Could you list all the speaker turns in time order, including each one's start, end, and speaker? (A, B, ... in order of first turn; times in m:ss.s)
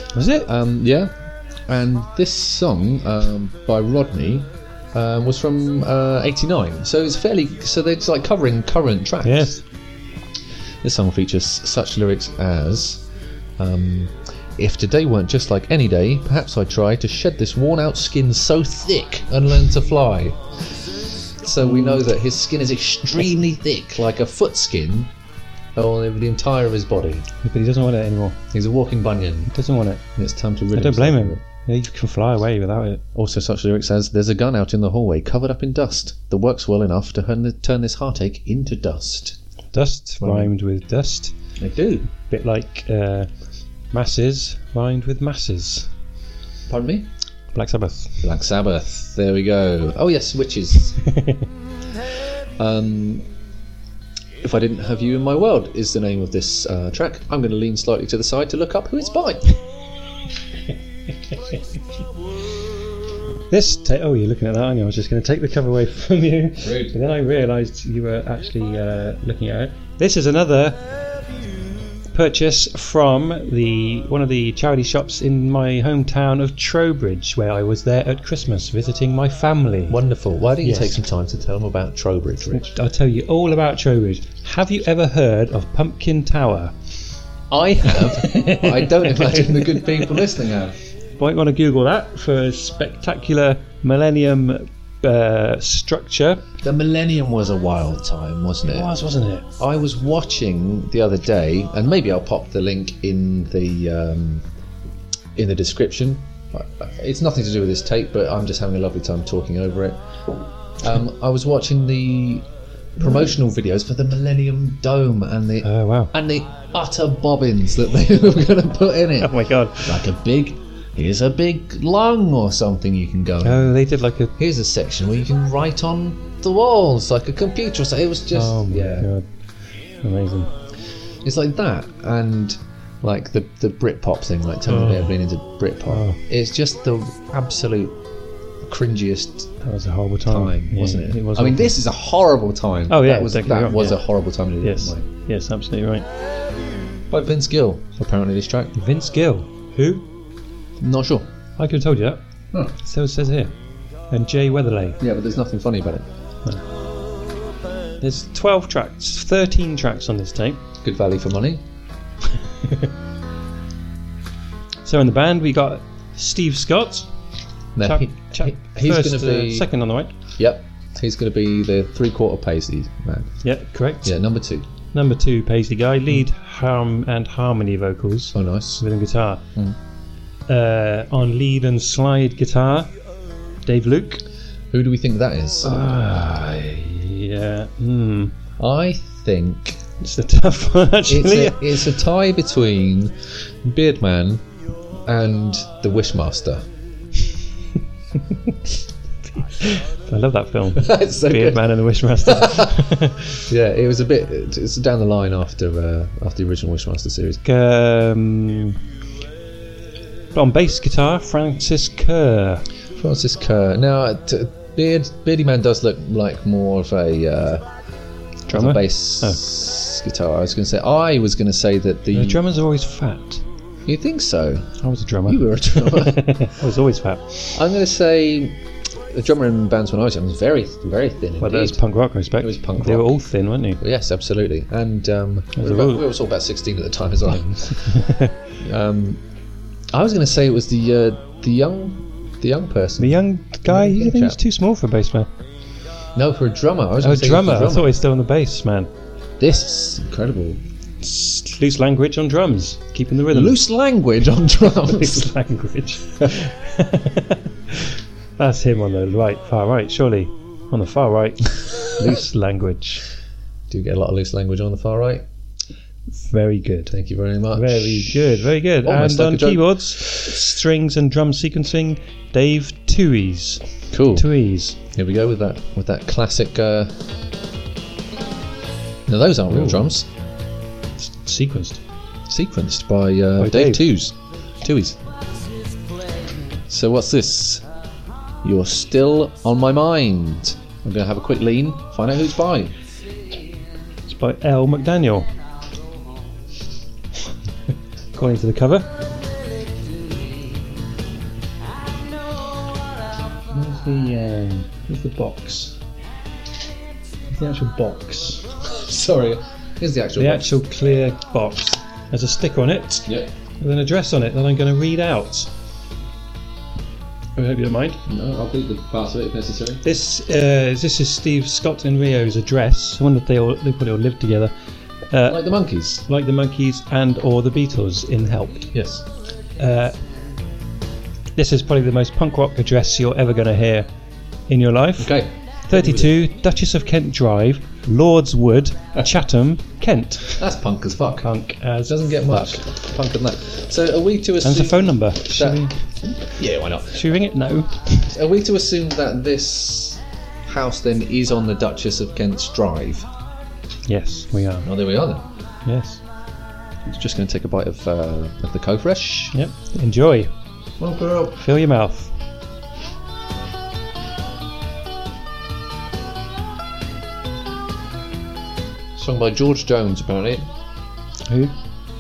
0:00.1-0:00.5 A
0:00.4-0:01.1 B
0:01.7-0:09.5 B
0:09.2-0:09.6 A
0:10.8-0:13.0 B
0:13.6-0:20.4 B
0:21.4-0:25.1 B
0:21.6-0:22.0 A
0:25.8-0:27.3 B
0:27.4-0:28.4 A
0:28.5-0:29.5 B
0:29.5-0:30.0 A
0:30.2-0:31.4 B
0:30.7-0:33.0 A
0:33.1-0:39.4 B
0:39.7-0:41.3 A
0:40.2-0:40.5 B
0:41.6-0:42.1 B
0:42.3-0:43.3 A
0:43.9-0:45.9 A
0:46.7-0:47.1 B
0:47.5-0:48.3 A
0:48.2-0:51.0 B
0:52.6-0:53.3 B
0:54.4-0:59.5 B
1:03.5-1:10.8 A
1:06.6-1:06.9 B
1:12.1-1:20.0 A
1:19.9-1:22.7 B
1:20.6-1:20.9 A
1:22.5-1:26.7 A
1:27.5-1:30.8 B
1:27.8-1:30.2 A
1:31.2-1:36.4 A
1:36.6-1:38.9 B
1:38.6-1:39.5 A
1:39.6-1:44.4 B
1:45.4-2:03.7 B
1:55.6-1:56.1 A
1:59.2-2:00.0 A
2:03.4-2:04.3 A
2:04.4-2:09.1 B
2:08.3-2:09.3 A
2:10.0-2:10.5 A
2:11.2-2:18.0 B
2:14.6-2:15.1 A
2:15.9-2:16.2 A
2:18.7-2:19.5 B
2:19.6-2:21.8 A
2:20.3-2:25.0 B
2:22.9-2:24.0 A
2:24.6-2:26.0 A
2:27.1-2:28.8 B
2:28.8-2:30.1 A
2:30.8-2:31.3 B
2:31.6-2:32.2 A
2:32.8-2:33.5 A
2:34.1-2:35.0 A
2:35.0-2:36.0 B
2:38.0-2:40.6 A
2:40.8-2:41.6 B
2:42.6-2:42.9 A
2:44.8-2:47.1 A
2:47.8-2:49.7 B
2:47.8-2:50.1 A
2:50.4-2:53.4 B
2:53.4-2:54.1 A
2:54.0-2:54.7 B
2:54.9-2:59.4 A
2:58.3-2:58.8 B
3:00.5-3:02.9 A
3:03.6-3:04.2 A
3:04.7-3:05.7 B
3:05.6-3:08.3 A
3:08.6-3:09.8 B
3:10.0-3:11.9 A
3:11.1-3:14.4 B
3:15.1-3:16.6 B
3:19.4-3:23.4 A
3:20.8-3:22.8 B
3:23.4-3:27.4 B
3:27.4-3:28.8 A
3:30.3-3:32.6 A
3:32.9-3:37.6 B
3:38.5-3:39.4 A
3:38.5-3:42.4 B
3:42.1-3:43.4 A
3:43.8-3:46.5 B
3:44.8-3:47.6 A
3:47.5-3:51.8 B
3:51.4-3:53.8 A
3:52.4-3:53.2 B
3:53.8-3:59.2 B
3:55.6-3:56.1 A
3:57.2-3:58.3 A
3:59.9-4:04.4 B
4:03.0-4:05.3 A
4:06.1-4:07.9 B
4:07.0-4:08.9 A
4:09.4-4:10.6 B
4:11.0-4:13.6 A
4:13.3-4:15.3 B
4:14.8-4:23.0 A
4:23.7-4:25.2 B
4:26.1-4:26.9 A
4:26.9-4:30.4 B
4:27.5-4:34.8 A
4:33.9-4:34.3 B
4:34.8-4:36.9 B
4:39.1-4:40.1 B
4:39.5-4:39.9 A
4:41.0-4:41.8 A
4:42.3-4:45.0 B
4:43.4-4:43.8 A
4:46.7-4:47.6 B
4:48.4-4:52.7 B
4:54.0-4:55.3 A
4:58.1-4:58.9 A
5:03.5-5:05.7 A
5:07.3-5:08.5 A
5:08.6-5:10.5 B
5:10.2-5:13.1 A
5:13.6-5:15.5 A
5:17.4-5:18.0 A
5:18.1-5:19.8 B
5:19.8-5:24.5 A
5:25.1-5:25.4 A
5:25.2-5:26.0 B
5:26.0-5:28.7 A
5:28.7-5:29.0 B
5:29.6-5:29.9 A
5:31.3-5:33.9 A
5:34.5-5:35.2 A
5:35.0-5:36.1 B
5:35.7-5:40.4 A
5:40.3-5:41.3 B
5:41.2-5:42.6 A
5:41.8-5:47.0 B
5:44.4-5:45.8 A
5:46.9-5:48.1 A
5:48.1-5:53.0 B
5:53.8-5:54.7 A
5:54.6-5:55.3 B
5:55.6-5:56.0 A
5:56.8-5:59.3 B
5:59.3-6:00.3 A
6:00.8-6:01.4 B
6:01.4-6:02.1 A
6:08.9-6:10.4 B
6:11.2-6:11.5 A